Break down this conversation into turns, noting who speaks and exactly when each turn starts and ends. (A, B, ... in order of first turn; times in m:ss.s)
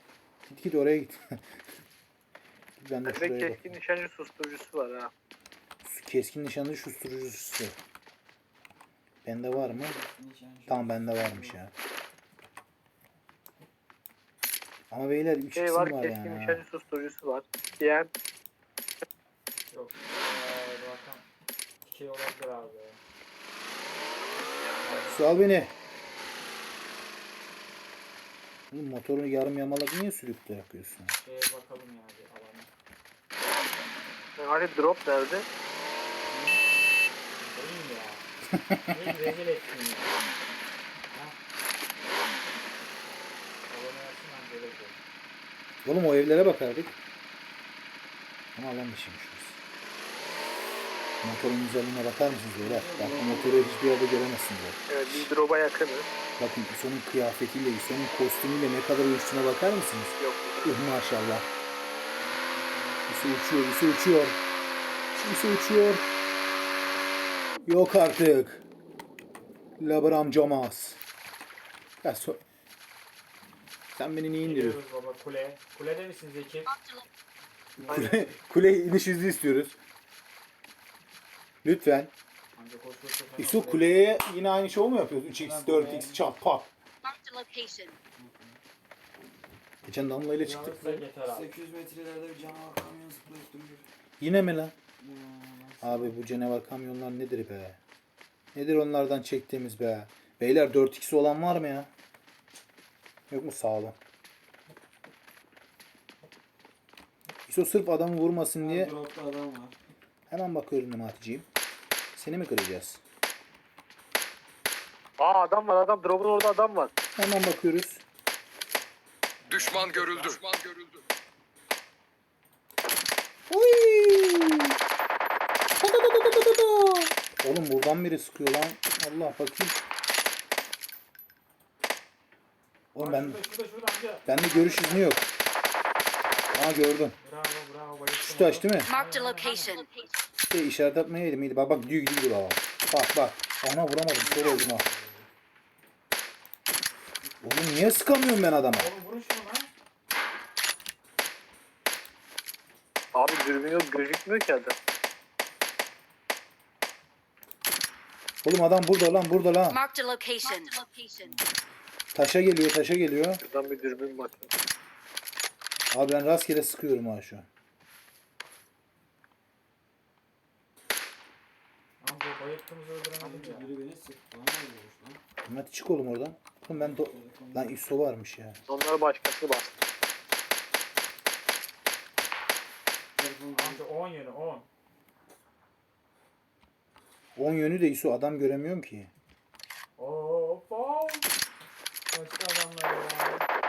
0:00.5-0:01.4 A
0:02.8-0:03.7 A
0:03.1-0:05.1 B
0:05.8-0:07.8 A
0:09.2-0:10.0 A
0:09.5-0:11.6 C
0:10.7-0:11.7 A
0:14.9-0:16.6 A
0:15.6-0:18.1 B
0:19.7-0:21.2 D
0:21.8-0:23.0 D
0:24.8-0:25.4 D
0:24.9-0:25.7 A
0:28.7-0:31.1 A
0:31.1-0:32.7 D
0:34.4-0:35.5 B
0:36.3-0:37.1 C
0:37.3-0:38.3 D
0:38.5-0:39.0 A
0:38.9-0:40.3 D
0:43.7-0:45.0 D
0:45.8-0:46.9 A
0:48.6-0:49.6 A
0:51.2-0:55.3 A
0:52.6-0:53.7 C
0:54.9-0:56.1 B
0:56.4-1:01.5 A
1:00.2-1:00.8 B
1:02.2-1:03.2 C
1:03.1-1:04.4 A
1:05.1-1:06.0 A
1:07.6-1:08.6 A
1:09.8-1:11.0 A
1:12.0-1:12.4 A
1:13.9-1:14.8 A
1:14.4-1:16.7 D
1:16.7-1:17.1 E
1:17.8-1:18.2 C
1:17.9-1:19.8 A
1:21.6-1:22.1 A
1:22.5-1:24.0 D
1:23.4-1:26.7 A
1:25.4-1:26.2 C
1:27.0-1:28.0 E
1:28.2-1:28.6 C
1:29.8-1:31.0 A
1:30.4-1:31.5 D
1:31.3-1:33.8 C
1:34.2-1:34.7 A
1:35.0-1:36.2 C
1:35.8-1:37.8 A
1:38.5-1:41.9 A
1:43.3-1:44.0 A
1:47.5-1:48.9 A
1:48.6-1:49.8 C
1:50.3-1:51.5 A
1:52.2-1:53.0 A
1:55.2-1:56.9 B
1:57.2-1:58.0 A
1:59.4-2:00.5 D
1:59.5-2:01.0 C
2:03.5-2:04.8 A
2:05.8-2:09.8 A
2:12.9-2:13.4 A
2:13.0-2:15.2 D
2:14.3-2:15.2 A
2:16.5-2:17.2 A
2:17.2-2:19.8 D
2:18.2-2:18.9 A
2:18.8-2:20.1 E
2:20.5-2:24.8 A
2:24.2-2:25.3 C
2:27.2-2:27.8 C
2:27.4-2:29.0 A
2:28.7-2:29.7 D
2:33.1-2:34.8 B
2:38.4-2:39.8 A
2:39.7-2:41.3 E
2:42.1-2:43.4 A
2:43.4-2:44.5 B
2:45.9-2:47.5 A
2:52.0-2:53.7 D
2:53.2-2:55.2 C
2:55.5-2:58.6 A
2:56.7-2:57.8 C
2:58.7-2:59.8 B
3:03.2-3:03.8 C
3:03.5-3:04.7 D
3:07.4-3:09.1 A
3:10.0-3:11.3 D
3:12.1-3:13.4 D